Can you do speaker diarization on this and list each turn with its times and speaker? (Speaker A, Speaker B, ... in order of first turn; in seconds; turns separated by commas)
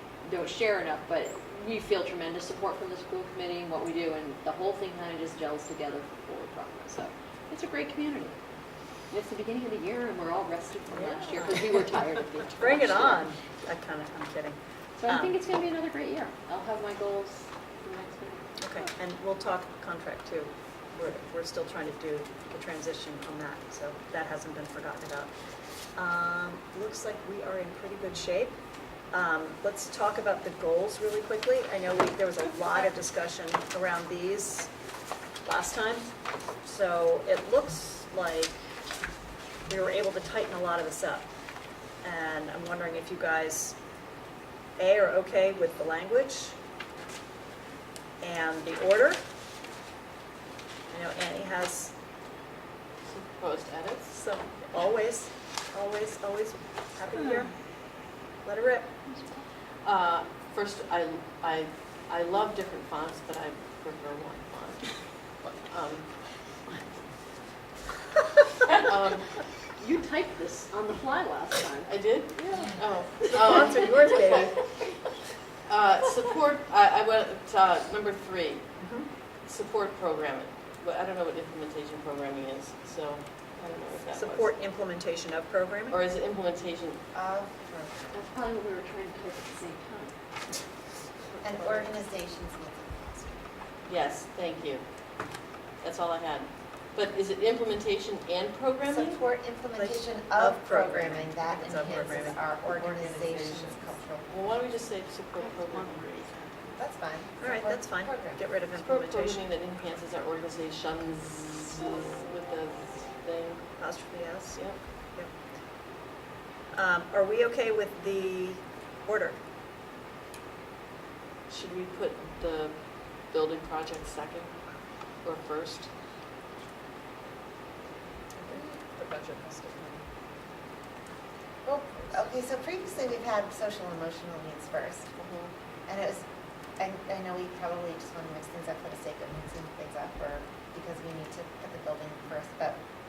Speaker A: 0.2-8.4, Speaker A: 9.1-13.3, Speaker B: 10.9-11.7, Speaker C: 12.6-15.4, Speaker A: 15.0-18.9, Speaker C: 18.6-25.3, Speaker C: 25.9-28.6, Speaker C: 29.1-34.7, Speaker C: 35.4-36.1, Speaker C: 36.6-38.6, Speaker C: 39.7-41.3, Speaker C: 42.0-43.8, Speaker C: 44.8-46.6, Speaker C: 48.2-49.2, Speaker C: 50.9-51.9, Speaker B: 53.0-54.2, Speaker C: 54.1-57.5, Speaker C: 58.5-58.9, Speaker A: 59.1-59.4, Speaker B: 59.8-64.9, Speaker B: 65.4-66.1, Speaker B: 68.7-69.3, Speaker A: 69.8-74.2, Speaker B: 71.9-74.5, Speaker C: 73.3-74.6, Speaker B: 75.7-78.7, Speaker C: 78.8-79.1, Speaker B: 79.5-84.5, Speaker C: 84.1-86.0, Speaker B: 85.9-87.0, Speaker D: 87.1-88.1, Speaker A: 88.1-90.1, Speaker D: 91.4-93.4, Speaker B: 93.9-94.8, Speaker B: 95.8-99.2, Speaker D: 98.8-104.4, Speaker C: 99.8-103.0, Speaker B: 102.8-103.8, Speaker B: 104.3-106.5, Speaker D: 106.7-108.4, Speaker C: 107.4-109.5, Speaker B: 108.7-113.6, Speaker C: 113.8-115.3, Speaker B: 114.5-114.8, Speaker C: 116.7-119.4, Speaker B: 121.5-122.8, Speaker B: 123.3-124.5, Speaker B: 125.2-125.9, Speaker C: 128.4-130.0, Speaker D: 131.7-135.1, Speaker B: 135.2-135.5, Speaker D: 135.9-136.2, Speaker D: 136.8-142.8